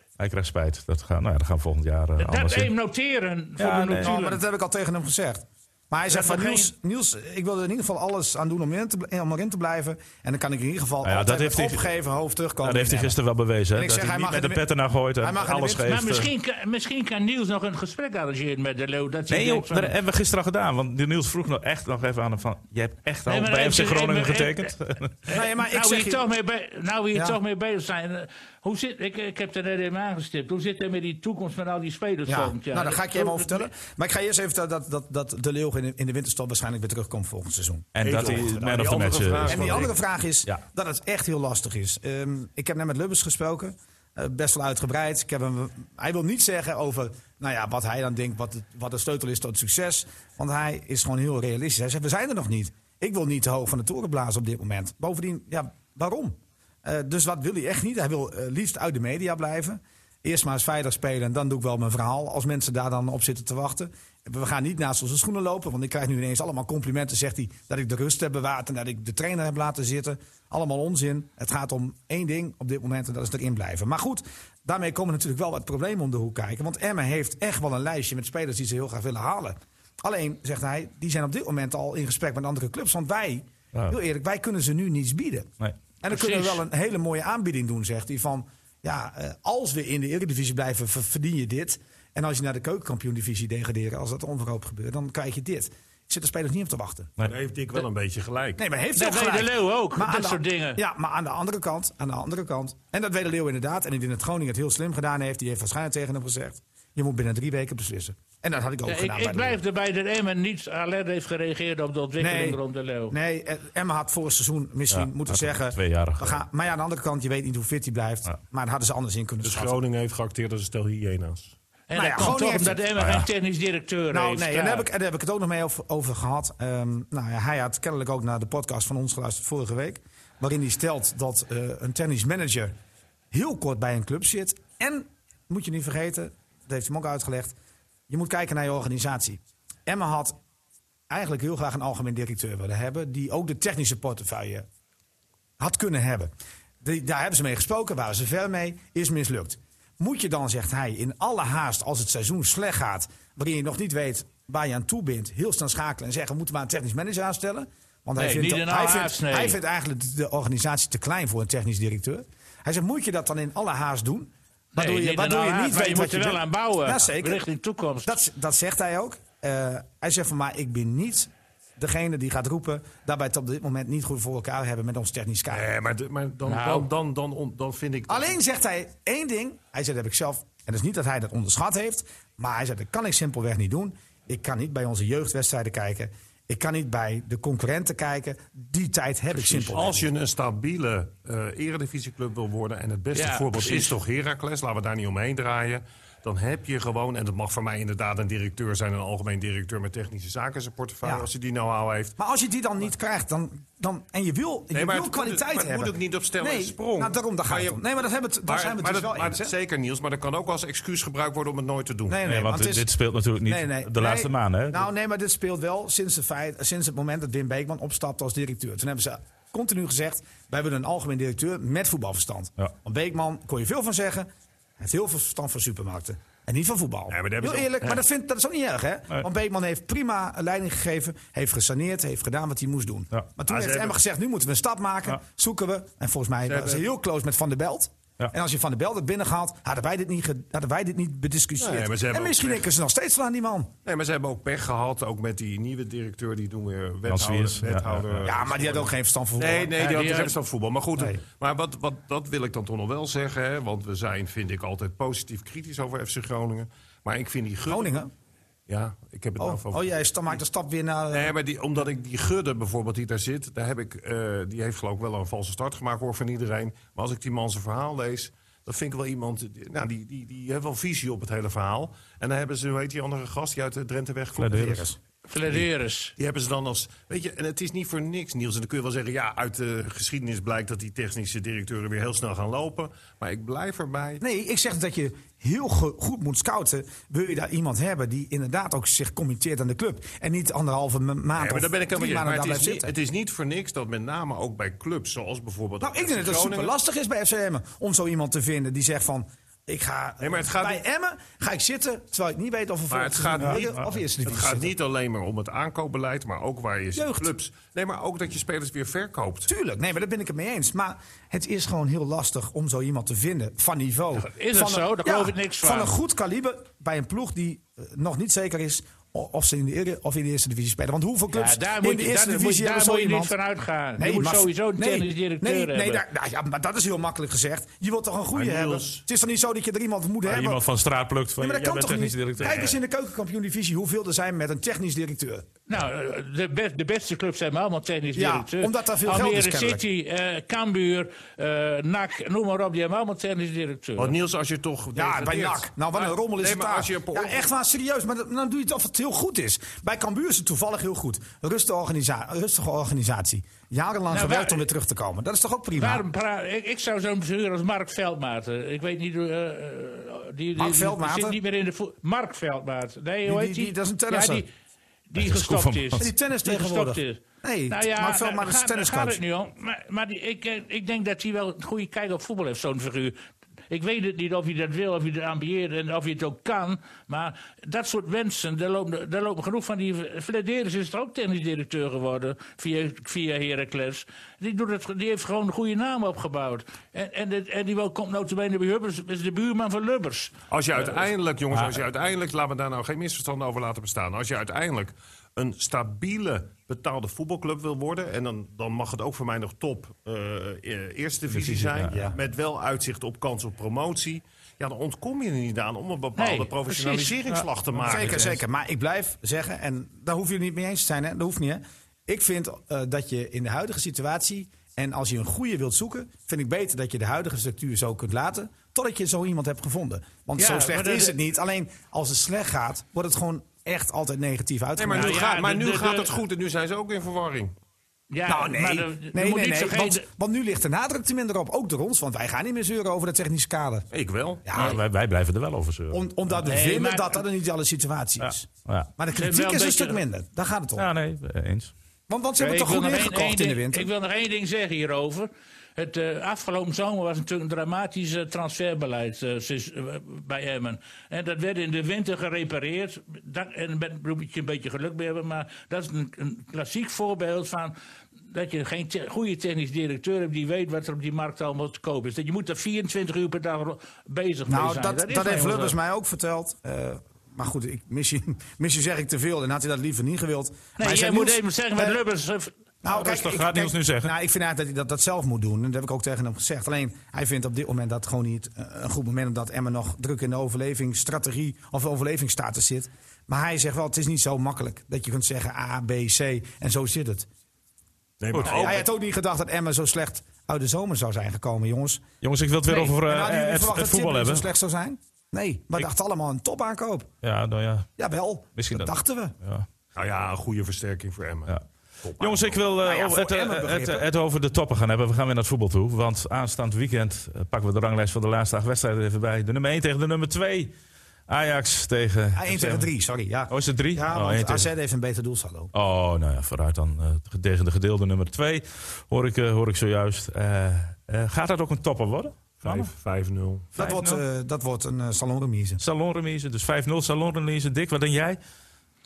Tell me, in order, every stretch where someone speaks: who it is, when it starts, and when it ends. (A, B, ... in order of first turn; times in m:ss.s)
0:00.2-0:02.7 A
0:02.2-0:04.4 B
0:03.6-0:04.1 A
0:04.0-0:13.2 C
0:06.1-0:06.7 B
0:11.0-0:11.8 A
0:12.6-0:16.3 A
0:13.7-0:14.7 C
0:15.2-0:16.0 C
0:15.8-0:19.9 B
0:19.3-0:25.2 A
0:23.3-0:24.7 B
0:25.3-0:33.7 B
0:25.3-0:26.3 C
0:27.1-0:27.4 C
0:32.3-0:38.8 C
0:38.0-0:39.9 A
0:38.0-0:39.9 D
0:39.4-1:25.5 C
1:26.0-1:37.1 C
1:26.1-1:26.6 B
1:37.2-1:38.6 D
1:38.6-1:49.6 C
1:39.0-1:40.8 B
1:48.9-1:53.2 B
1:52.2-1:59.8 C
1:54.9-1:56.4 A
1:59.4-2:01.5 D
2:01.9-2:04.9 B
2:01.9-2:02.8 C
2:03.0-2:03.3 A
2:04.1-2:12.7 C
2:13.3-2:17.6 C
2:18.1-2:20.4 C
2:21.1-2:24.7 C
2:25.6-2:26.3 C
2:26.8-2:47.5 C
2:38.2-2:39.6 B
2:44.8-2:48.2 B
2:48.0-2:55.6 C
2:55.5-2:58.4 D
2:56.5-2:56.9 B
2:58.1-3:10.1 C
3:09.3-3:22.2 D
3:13.2-3:14.0 B
3:21.0-3:21.3 C
3:22.2-3:29.5 C
3:24.7-3:27.9 D
3:28.4-3:32.2 D
3:32.1-3:32.9 C
3:32.2-3:34.8 A
3:33.4-3:44.3 C
3:44.8-4:03.7 C
3:47.1-3:48.1 D
3:53.5-3:54.0 D
3:56.5-3:56.8 D
4:01.6-4:02.7 D
4:03.8-4:18.0 D
4:07.1-4:08.3 A
4:08.2-4:10.0 C
4:09.8-4:10.3 B
4:17.7-4:18.1 C
4:18.7-4:20.4 D
4:19.4-4:21.3 C
4:21.1-4:34.7 D
4:34.4-4:34.9 A
4:34.4-4:35.0 C
4:35.3-4:36.1 B
4:35.4-4:44.2 D
4:44.2-4:52.9 C
4:51.4-4:56.7 D
4:55.8-5:04.7 C
5:00.2-5:00.8 D
5:02.9-5:09.5 D
5:03.4-5:03.9 A
5:07.0-5:07.3 C
5:09.5-5:23.4 C
5:14.2-5:15.9 B
5:21.3-5:26.0 B
5:24.0-5:30.6 C
5:28.3-5:29.0 D
5:30.2-5:32.7 A
5:31.4-5:35.4 C
5:32.4-5:32.7 D
5:35.7-5:44.2 B
5:38.2-5:39.8 C
5:44.0-5:47.5 D
5:45.0-5:56.0 C
5:54.1-5:54.6 B
5:55.8-6:04.5 B
6:00.6-6:01.4 C
6:03.2-6:04.5 C
6:05.1-6:13.2 B
6:05.2-6:06.1 A
6:06.0-6:09.2 C
6:13.7-6:31.0 B
6:30.5-6:48.4 D
6:41.3-6:42.0 A
6:41.9-6:42.2 C
6:46.2-6:47.4 B
6:47.9-7:05.2 C
7:00.4-7:01.2 B
7:04.8-7:07.5 D
7:04.9-7:06.2 B
7:08.1-7:10.0 B
7:08.3-7:13.9 C
7:13.9-7:14.4 D
7:14.4-7:14.8 C
7:14.5-7:16.1 A
7:15.9-7:20.9 C
7:16.5-7:17.2 B
7:18.2-7:18.9 A
7:19.2-7:20.0 B
7:20.8-7:21.7 A
7:22.1-7:23.9 C
7:22.4-7:37.7 B
7:38.3-7:45.8 B
7:44.5-7:52.0 C
7:50.8-7:52.5 B
7:52.8-8:07.3 C
7:52.9-7:54.1 A
8:08.2-8:08.9 D
8:08.3-8:08.6 A
8:08.4-8:12.0 C
8:12.2-8:14.5 A
8:12.7-8:17.1 C
8:17.2-8:17.9 A
8:18.0-8:19.3 C
8:18.6-8:19.7 A
8:20.0-8:22.6 D
8:22.2-8:30.7 A
8:22.8-8:24.1 C
8:31.3-8:32.9 A
8:32.4-8:35.7 C
8:33.5-8:34.7 A
8:35.7-8:42.9 A
8:42.6-8:43.7 D
8:43.8-8:45.8 C
8:43.8-8:44.2 A
8:45.8-8:48.4 A